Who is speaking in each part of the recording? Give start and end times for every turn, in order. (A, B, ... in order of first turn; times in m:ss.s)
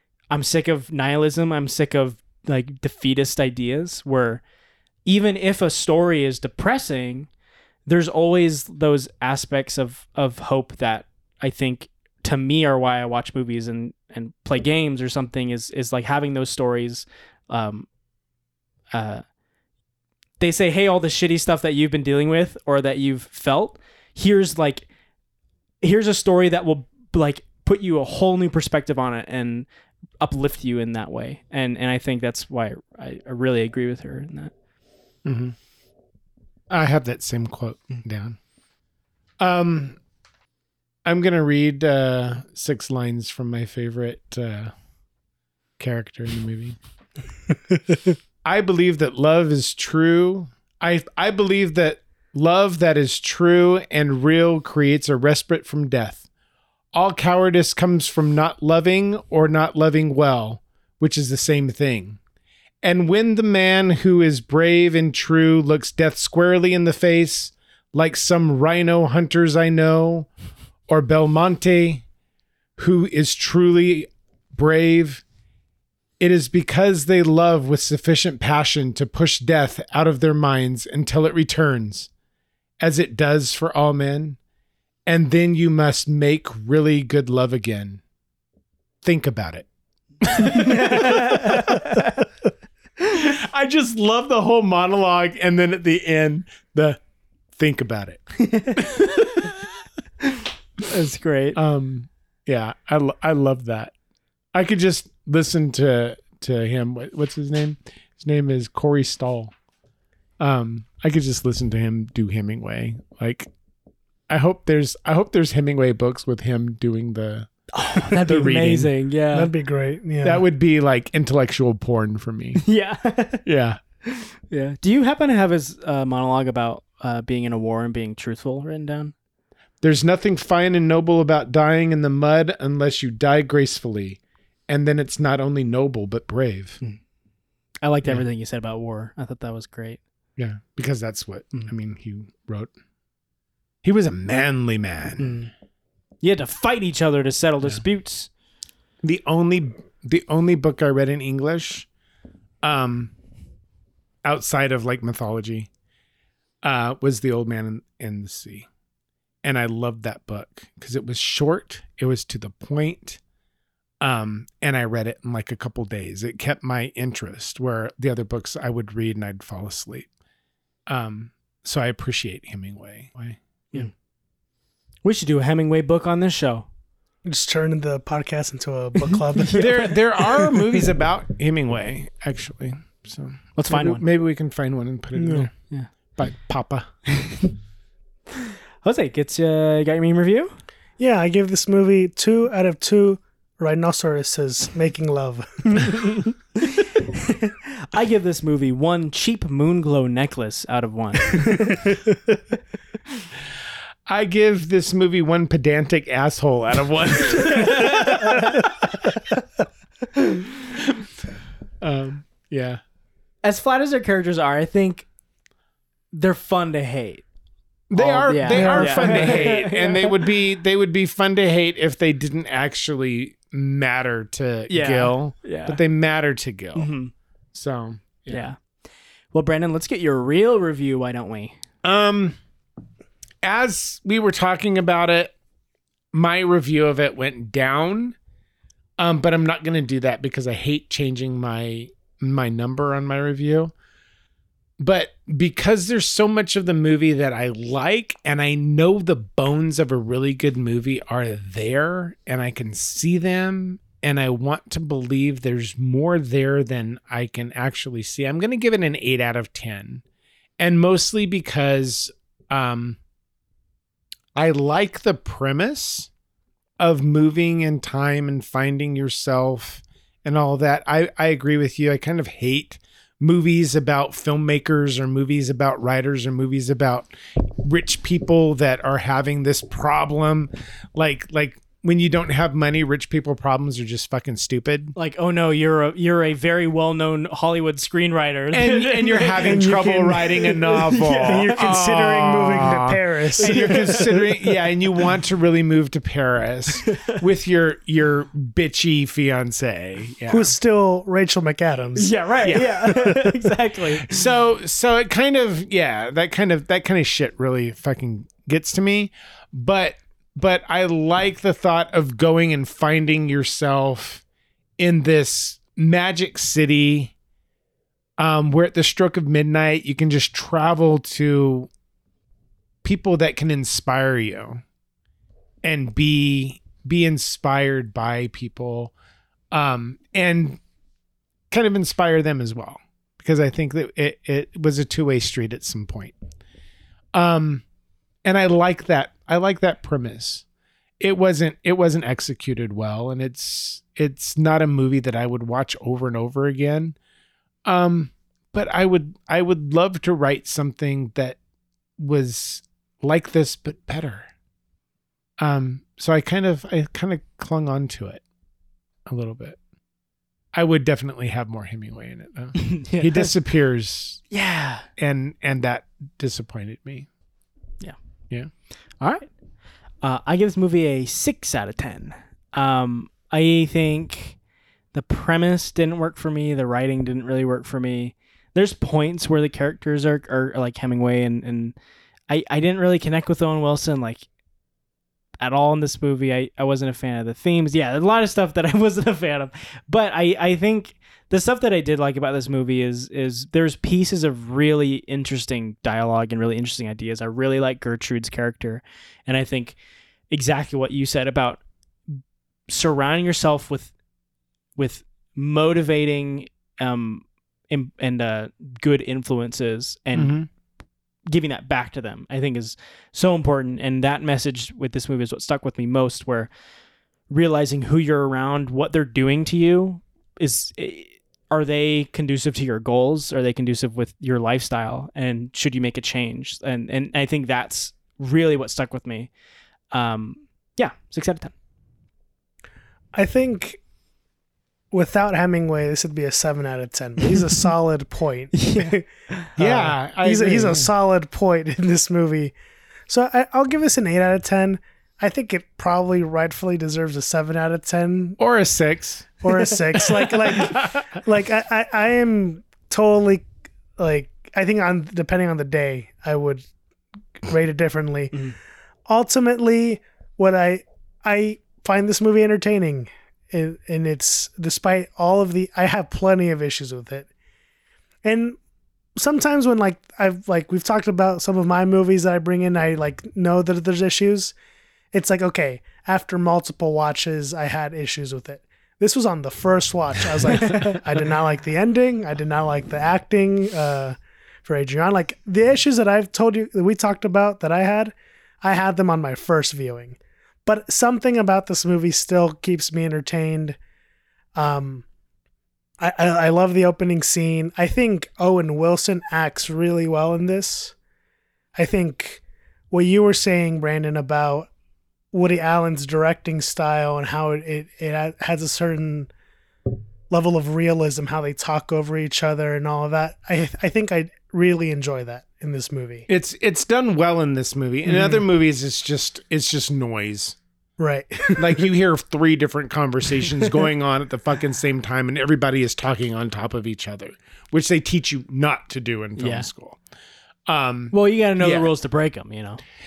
0:00.3-0:04.4 A
0:05.0-0:07.3 A
0:07.8-0:17.9 A
0:18.9-0:19.2 A
0:20.4-0:24.8 A
0:25.8-0:29.6 A
0:30.2-0:34.5 A
0:35.2-0:35.6 B
0:36.7-0:38.4 B
0:39.4-0:40.0 B
0:41.0-0:44.7 B
0:45.8-0:46.8 B
0:48.4-0:56.2 B
0:56.9-1:02.2 B
1:02.8-1:10.3 B
1:10.9-1:12.0 B
1:12.8-1:15.2 B
1:16.2-1:22.1 B
1:22.8-1:24.4 B
1:25.0-1:28.0 B
1:29.0-1:29.7 B
1:30.2-1:32.0 B
1:30.4-1:32.3 A
1:33.1-1:37.0 B
1:37.6-1:39.6 B
1:38.4-1:39.6 A
1:40.2-1:41.6 A
1:41.6-1:43.9 B
1:44.5-1:49.5 B
1:50.4-1:53.5 B
1:54.3-1:58.9 B
1:57.7-1:59.5 A
1:59.3-2:00.4 C
2:00.2-2:02.6 B
2:02.6-2:03.4 A
2:03.4-2:03.8 B
2:04.0-2:09.1 A
2:09.8-2:16.8 B
2:17.8-2:20.0 A
2:20.4-2:22.7 B
2:23.8-2:25.4 B
2:25.2-2:25.5 A
2:26.2-2:28.3 A
2:29.0-2:31.9 B
2:32.6-2:33.1 B
2:34.2-2:35.7 B
2:36.6-2:38.7 B
2:39.4-2:43.2 B
2:44.0-2:50.1 B
2:50.9-2:53.9 B
2:55.0-2:56.6 A
2:57.2-2:59.9 C
2:59.0-3:00.6 A
2:59.5-3:05.5 B
3:03.6-3:04.0 A
3:05.2-3:05.5 C
3:06.2-3:06.9 B
3:07.1-3:07.5 A
3:08.4-3:10.5 A
3:11.0-3:16.2 C
3:16.1-3:21.9 A
3:24.0-3:28.7 B
3:27.5-3:28.6 A
3:30.8-3:31.0 B
3:31.8-3:32.8 B
3:33.4-3:35.0 A
3:36.1-3:37.2 A
3:37.9-3:46.9 B
3:37.9-3:40.2 A
3:38.5-3:39.5 C
3:44.7-3:45.8 A
3:46.7-3:47.1 A
3:47.5-3:48.5 B
3:48.3-3:48.6 A
3:49.3-3:51.5 A
3:51.8-3:52.4 B
3:53.4-3:55.3 B
3:56.1-3:58.1 B
3:59.0-4:03.7 B
4:04.8-4:20.0 B
4:20.6-4:23.0 B
4:24.3-4:26.1 B
4:26.8-4:44.9 B
4:45.0-4:49.7 A
4:48.5-5:00.5 B
4:49.4-4:54.2 C
4:50.6-4:51.8 A
4:53.4-4:54.3 A
4:56.7-4:57.2 A
5:00.3-5:03.3 C
5:02.0-5:04.1 A
5:04.0-5:14.2 B
5:14.8-5:17.1 B
5:18.2-5:21.7 B
5:22.8-5:24.6 B
5:25.6-5:28.9 B
5:29.5-5:30.6 B
5:31.5-5:36.1 B
5:37.1-5:37.6 B
5:38.2-5:40.4 B
5:41.0-5:47.0 B
5:47.6-5:51.4 B
5:52.0-5:54.3 B
5:55.4-5:58.2 B
5:59.0-5:59.6 B
6:00.5-6:04.2 B
6:02.6-6:03.3 A
6:04.3-6:04.9 A
6:05.0-6:07.1 B
6:09.0-6:09.3 A
6:10.0-6:14.4 A
6:14.9-6:21.7 A
6:22.3-6:24.2 A
6:25.4-6:39.8 A
6:40.3-6:43.9 A
6:44.8-6:50.3 A
6:50.1-6:50.5 B
6:51.3-6:56.5 A
6:57.3-7:09.3 A
7:09.9-7:11.5 A
7:13.1-7:13.8 C
7:14.9-7:22.5 C
7:18.5-7:19.5 A
7:19.6-7:20.9 B
7:23.1-7:28.4 C
7:28.4-7:29.4 B
7:29.4-7:36.6 C
7:30.2-7:30.8 B
7:37.4-7:38.4 C
7:39.1-7:47.3 C
7:48.2-7:48.6 C
7:49.2-7:54.5 C
7:55.1-8:13.8 C
8:00.6-8:01.0 A
8:14.6-8:15.0 C
8:16.0-8:20.9 C
8:21.7-8:24.7 C
8:25.3-8:29.3 C
8:30.3-8:36.3 C
8:36.3-8:40.6 B
8:38.1-8:38.4 C
8:41.0-8:41.9 C
8:41.6-8:50.0 B
8:49.4-8:49.7 A
8:50.7-8:51.9 B
8:51.1-8:52.8 A